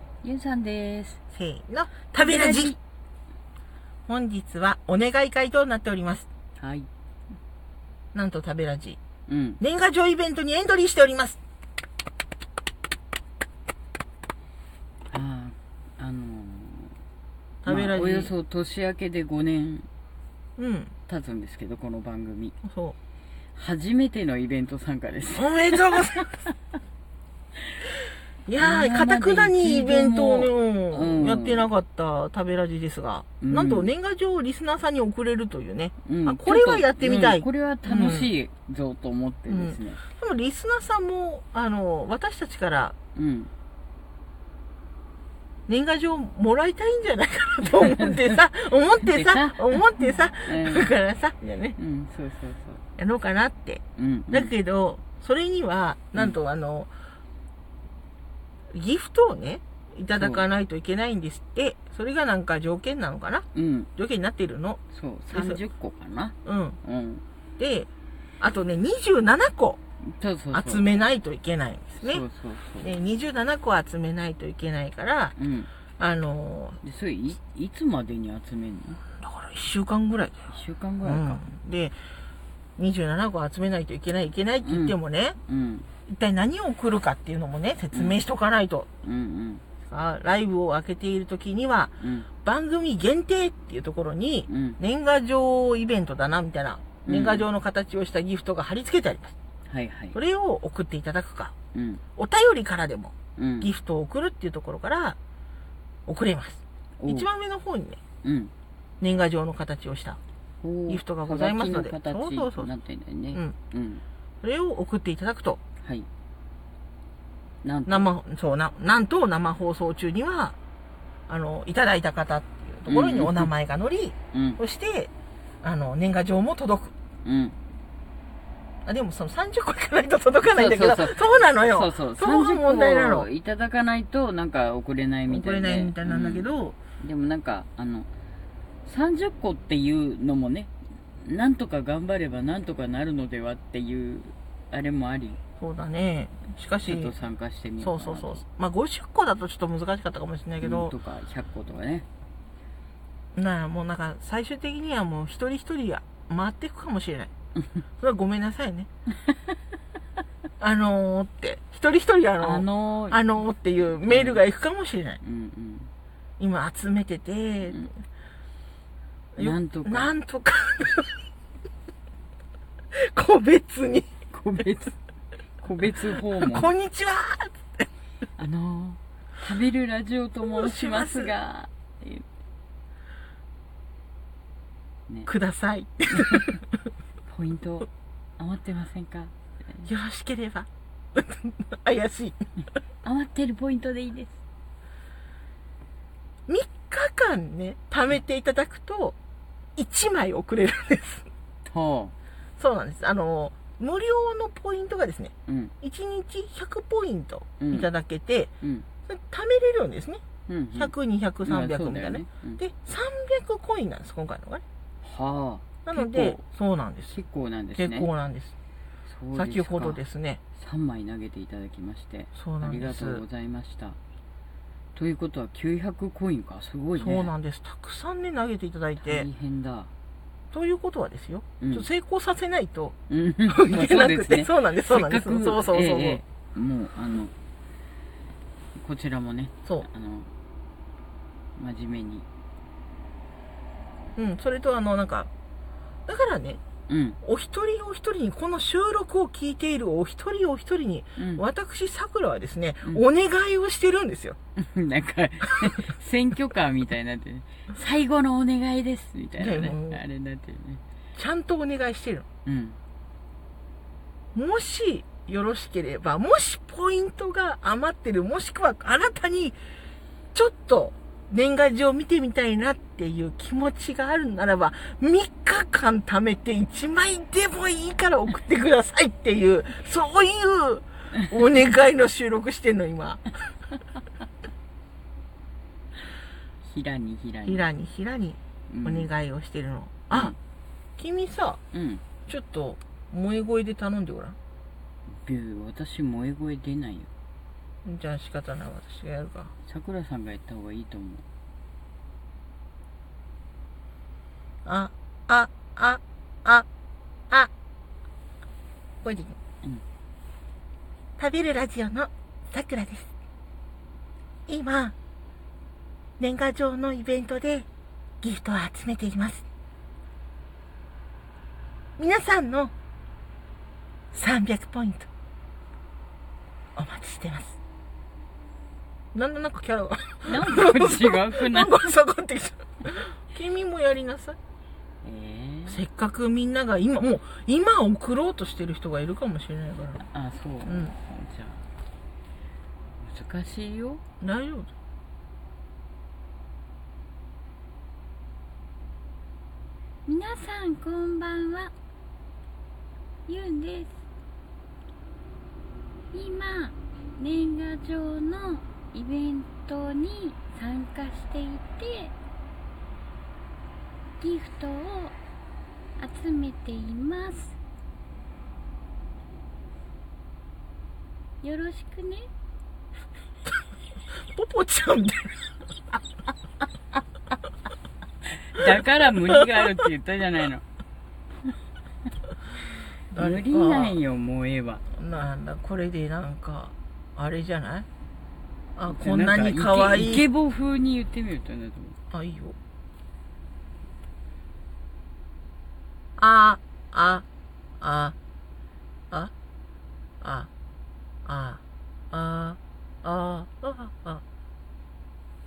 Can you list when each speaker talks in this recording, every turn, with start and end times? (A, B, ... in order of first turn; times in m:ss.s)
0:00.2-0:01.2 A
0:01.3-0:02.8 B
0:02.1-0:02.8 A
0:04.1-0:06.3 B
0:06.6-0:06.9 A
0:08.1-0:09.0 B
0:09.3-0:09.6 A
0:09.6-0:11.4 B
0:15.1-0:17.0 A
0:17.6-0:18.3 B
0:17.6-0:19.9 A
0:20.6-0:20.9 B
0:21.1-0:22.6 A
0:22.6-0:23.0 B
0:23.5-0:26.4 A
0:25.3-0:26.3 B
0:28.5-0:38.3 B
0:28.6-0:31.7 A
0:33.4-0:33.9 A
0:36.0-0:40.0 A
0:39.5-0:42.9 B
0:43.1-0:43.5 A
0:45.7-0:51.8 B
0:47.7-0:48.4 A
0:49.0-0:50.9 A
0:51.8-0:52.8 A
0:53.0-0:56.9 B
0:54.0-0:54.5 A
0:58.7-1:04.8 B
1:00.1-1:00.5 A
1:03.5-1:03.9 A
1:04.9-1:07.2 A
1:05.3-1:05.6 B
1:06.4-1:06.8 B
1:07.6-1:07.9 B
1:08.4-1:09.8 B
1:10.0-1:11.0 A
1:10.5-1:12.2 B
1:11.9-1:13.0 A
1:12.8-1:15.3 B
1:15.4-1:15.7 A
1:16.0-1:16.8 B
1:16.8-1:19.0 A
1:19.2-1:20.5 B
1:20.5-1:21.4 A
1:21.0-1:22.0 B
1:22.8-1:25.4 B
1:24.6-1:25.9 A
1:26.1-1:28.9 B
1:27.9-1:28.2 A
1:29.0-1:29.6 A
1:29.8-1:39.3 B
1:32.0-1:32.3 A
1:34.5-1:34.8 A
1:37.0-1:37.4 A
1:39.6-1:40.2 A
1:40.1-1:41.5 B
1:41.7-1:42.0 A
1:42.2-1:45.2 B
1:43.4-1:43.7 A
1:46.1-1:48.0 B
1:47.0-1:47.3 A
1:48.2-1:48.5 A
1:49.0-1:50.2 B
1:50.6-1:54.0 A
1:50.9-1:52.7 B
1:54.4-1:55.6 B
1:55.8-1:56.1 A
1:57.6-1:58.1 A
1:57.9-2:00.6 B
2:01.3-2:05.1 B
2:02.9-2:03.5 A
2:04.3-2:04.6 A
2:05.6-2:06.9 B
2:07.2-2:07.6 A
2:08.8-2:13.3 B
2:10.5-2:18.1 A
2:15.3-2:16.8 B
2:18.8-2:25.4 A
2:25.6-2:27.1 B
2:26.8-2:28.4 A
2:27.8-2:30.9 B
2:30.6-2:32.1 A
2:33.3-2:37.3 B
2:38.0-2:38.9 B
2:40.6-2:45.2 B
2:42.4-2:43.2 A
2:44.0-2:44.4 A
2:45.2-2:45.9 A
2:46.4-2:47.9 B
2:49.4-2:51.2 B
2:49.4-2:50.1 A
2:53.0-2:54.1 B
2:54.3-2:55.0 A
2:55.6-2:56.7 A
2:56.4-2:57.8 B
2:58.4-3:02.2 A
3:00.4-3:01.3 B
3:05.2-3:06.6 B
3:06.3-3:06.6 A
3:07.2-3:09.9 A
3:09.8-3:12.4 B
3:13.0-3:14.4 A
3:16.5-3:19.2 B
3:19.8-3:21.3 B
3:21.6-3:22.1 A
3:22.6-3:28.5 B
3:25.5-3:25.7 A
3:27.6-3:27.9 A
3:28.6-3:28.8 A
3:29.1-3:30.2 B
3:30.5-3:30.9 A
3:30.8-3:34.6 B
3:31.4-3:32.6 A
3:35.0-3:36.4 A
3:35.8-3:37.2 B
3:37.1-3:38.1 A
3:37.8-3:38.5 B
3:39.0-3:40.0 A
3:39.3-3:40.4 B
3:40.6-3:44.0 A
3:42.3-3:43.2 B
3:44.9-3:47.3 A
3:47.0-3:49.3 B
3:49.0-3:49.9 A
3:50.5-3:53.0 B
3:51.6-3:51.9 A
3:53.1-3:57.3 A
3:53.5-3:56.2 B
3:58.8-4:00.3 A
4:01.6-4:02.2 A
4:04.2-4:05.3 B
4:06.1-4:06.6 B
4:06.9-4:07.2 A
4:07.2-4:14.4 B
4:11.2-4:11.4 A
4:14.6-4:20.8 A
4:19.4-4:20.0 B
4:21.2-4:22.2 B
4:22.4-4:22.8 A
4:24.3-4:29.6 B
4:30.3-4:43.2 B
4:46.6-4:47.7 A
4:47.5-4:50.3 B
4:48.7-4:49.1 A
4:50.1-4:50.4 A
4:51.0-4:51.6 B
4:51.7-4:52.0 A
4:52.3-4:54.4 B
4:55.2-4:57.1 A
4:57.8-4:59.5 B
4:59.6-5:01.2 A
5:04.6-5:06.7 B
5:09.0-5:09.4 B
5:11.2-5:13.1 B
5:14.5-5:14.9 B
5:16.2-5:17.7 B
5:18.2-5:19.4 B
5:22.0-5:22.7 B
5:24.1-5:25.1 B
5:26.8-5:27.6 B
5:29.1-5:34.4 B
5:30.2-5:31.8 A
5:35.0-5:35.8 A
5:35.7-5:40.0 B
5:40.0-5:41.6 A
5:40.6-5:40.9 B
5:43.0-5:44.0 A
5:44.2-5:44.7 B
5:50.0-5:51.7 A
5:53.3-5:53.9 A
5:56.1-6:02.1 A
6:04.2-6:05.2 A
6:06.0-6:07.6 A
6:11.4-6:12.2 A
6:14.3-6:15.3 B
6:18.3-6:20.6 A
6:23.1-6:24.0 B
6:23.1-6:24.8 A
6:24.9-6:27.8 B
6:28.8-6:30.2 B
6:28.8-6:32.0 A
6:32.1-6:32.6 B
6:36.2-6:37.2 B
6:37.8-6:38.1 B
6:40.2-6:40.5 B
6:41.2-6:44.2 B